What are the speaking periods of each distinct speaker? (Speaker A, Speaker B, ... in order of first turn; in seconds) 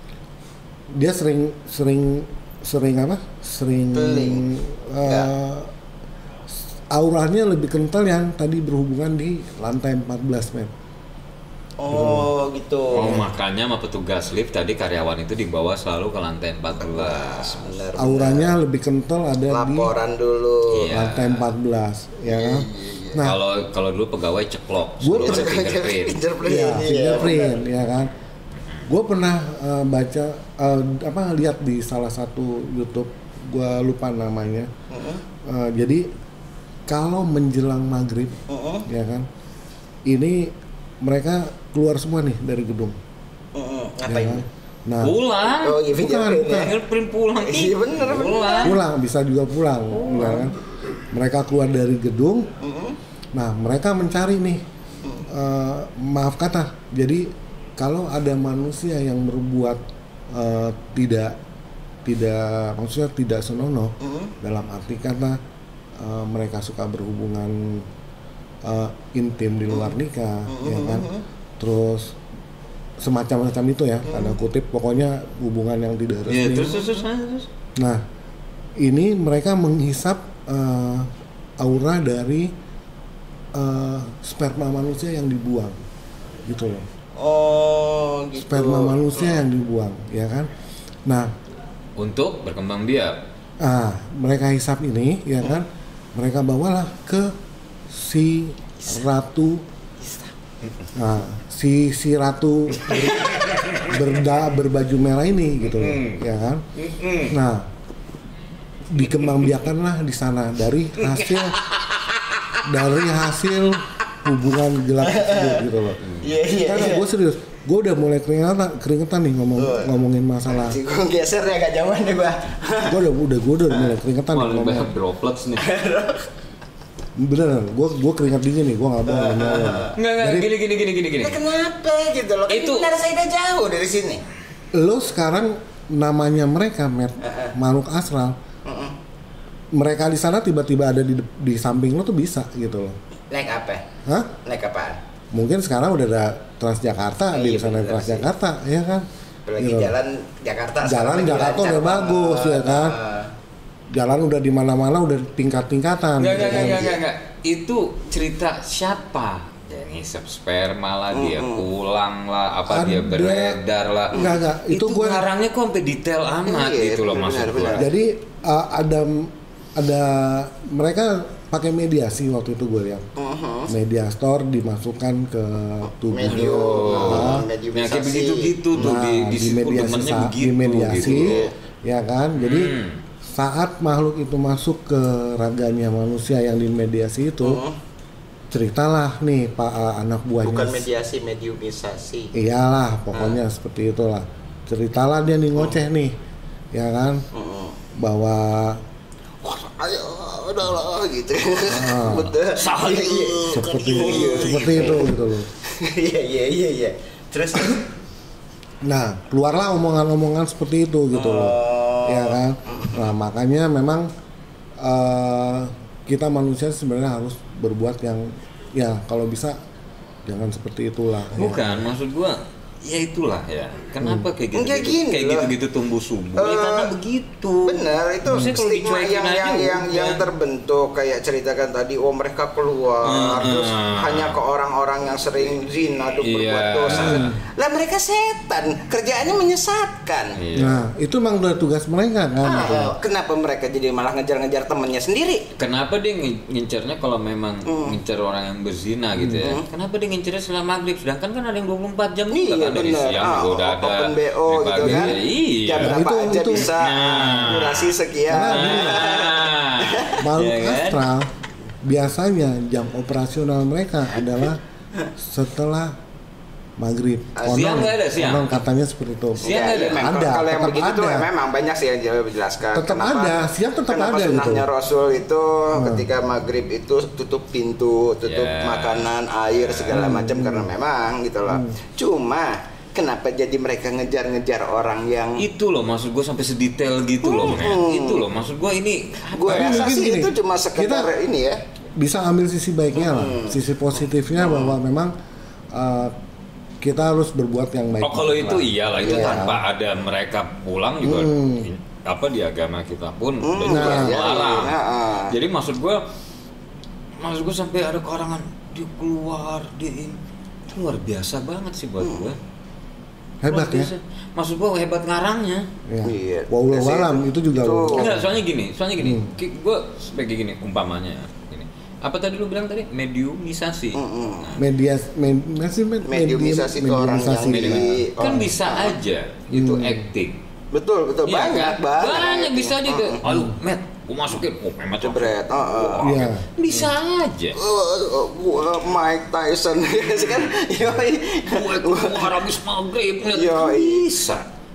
Speaker A: 0.9-5.7, 6.9-10.7, 11.9-12.3, 18.0-19.9, 20.9-23.4, 25.0-25.6, 26.4-28.1, 28.9-34.7, 35.4-36.1, 36.9-39.3, 40.1-43.0, 44.0-45.2, 46.0-46.7, 48.6-50.6, 51.1-52.5, 53.3-54.6, 55.3-59.8, 60.3-61.4, 62.0-65.4, 66.0-67.9, 68.6-72.2, 73.0-76.8, 77.8-78.0, 78.8-82.5, 83.5-85.8, 86.5-86.9, 88.4-90.5, 93.6-97.3, 97.9-99.7, 101.0-106.7, 107.3-107.7, 108.9-111.6, 112.7-116.0, 116.6-120.8, 122.9-124.9, 127.2-130.5, 134.7-138.4, 139.7-143.0, 144.1-144.3, 145.3-149.1, 149.6-149.9, 150.8-153.0, 153.9-156.9, 162.7-163.6, 164.1-165.3, 167.8-173.1, 173.7-177.5, 178.8-182.8, 183.3-187.6, 188.5-190.9, 192.3-196.2, 196.7-197.2, 197.9-198.8, 201.7-202.3, 203.5-205.5, 208.8-214.1, 214.8-219.6, 220.2-221.9, 224.0-224.3, 236.9-237.3, 240.6-243.0, 249.2-249.6, 254.8-255.2, 255.8-256.7, 258.3-259.1, 260.2-261.3, 261.8-264.6, 265.2-266.0, 266.8-271.3, 272.8-274.7, 275.8-276.1, 279.9-280.7, 281.5-281.7, 289.5-291.1, 292.0-295.1, 295.7-296.1, 296.8-299.6, 301.0-301.7, 303.6-304.3, 313.4-313.9, 315.9-318.2, 319.0-319.3, 324.6-328.0, 329.5-330.1, 333.2-333.6, 336.0-336.4
Speaker B: 3.9-4.5, 5.0-5.3, 11.8-13.3, 16.8-18.6, 19.5-20.9, 22.3-23.2, 25.2-27.6, 34.9-35.2, 38.5-38.9, 43.5-44.4, 45.6-46.7, 47.4-48.8, 52.6-53.0, 64.0-64.3, 70.5-71.2, 74.1-74.4, 87.2-89.4, 115.0-115.6, 116.2-117.1, 119.6-119.9, 120.5-123.0, 125.6-126.3, 129.1-129.9, 131.2-134.2, 137.2-137.5, 138.7-138.9, 143.3-143.8, 144.4-145.0, 147.3-148.3, 149.5-153.3, 156.4-157.0, 161.1-161.7, 166.4-167.9, 173.2-173.7, 176.1-179.0, 181.0-181.5, 187.4-187.8, 190.4-192.3, 193.1-193.4, 197.3-197.8, 199.4-207.9, 211.1-213.0, 224.5-225.5, 226.4-226.9, 227.7-240.4, 242.4-245.4, 247.7-248.0, 249.4-249.7, 252.3-260.2, 267.4-267.8, 269.4-285.4, 287.2-288.3, 289.3-291.6, 292.9-293.6, 294.3-294.8, 299.1-299.5, 303.4-305.4, 312.0-312.3, 316.1-318.1, 323.9-324.6, 326.0-329.0, 330.7-333.2, 335.0-336.2, 337.6-342.3, 343.3-344.1
Speaker C: 12.9-17.8, 20.7-21.5, 23.2-26.2, 28.6-28.9, 45.0-45.9, 46.4-48.8, 50.0-50.5, 76.3-77.5, 92.0-93.2, 102.8-104.2, 105.6-106.2, 106.8-107.4, 111.0-112.0, 116.0-116.3, 124.3-125.7, 130.0-131.4, 132.5-132.9, 156.2-167.9, 176.3-181.4, 182.4-183.0, 202.5-205.0, 221.3-230.2, 233.0-234.4, 236.2-237.4, 240.3-240.8, 245.6-261.1, 267.4-268.6, 269.4-270.1, 278.2-280.1, 285.4-290.0, 298.0-304.8, 305.3-306.0, 307.2-310.2, 310.7-312.4, 313.5-315.7, 317.9-324.6, 327.5-330.4, 331.3-337.6, 340.1-340.5, 341.4-344.4